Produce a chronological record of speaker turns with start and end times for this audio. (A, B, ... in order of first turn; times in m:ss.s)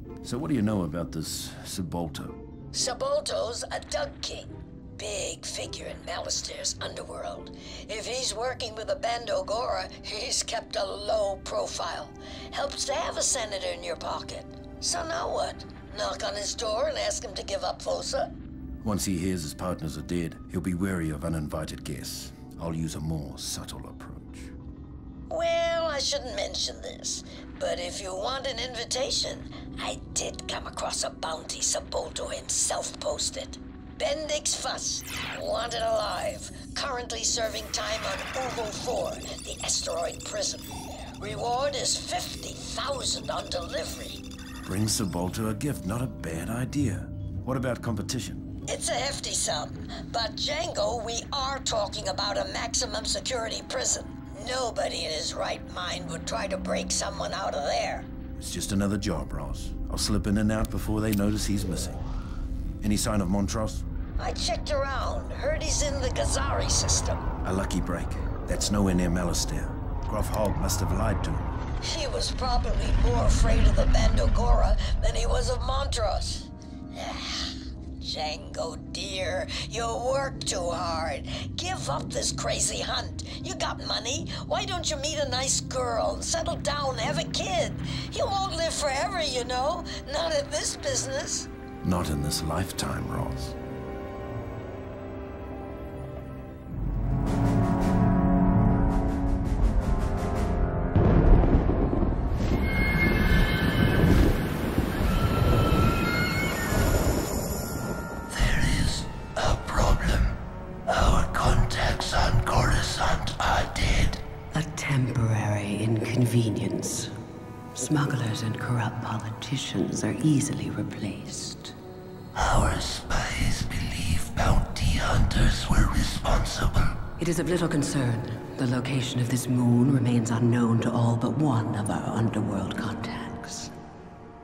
0:00.2-0:02.4 A
0:02.7-0:18.3 B
0:18.8-0:24.5 A
0:25.3-0:44.2 B
0:44.6-0:48.4 A
0:48.7-0:58.1 B
0:58.4-1:02.0 A
1:02.8-1:03.8 A
1:04.2-1:07.2 B
1:07.4-1:11.5 A
1:11.8-1:31.5 B
1:31.8-1:33.6 A
1:48.3-1:54.2 C
1:54.5-1:57.2 D
1:57.8-2:01.7 D
2:02.4-2:07.0 C
2:07.1-2:13.7 D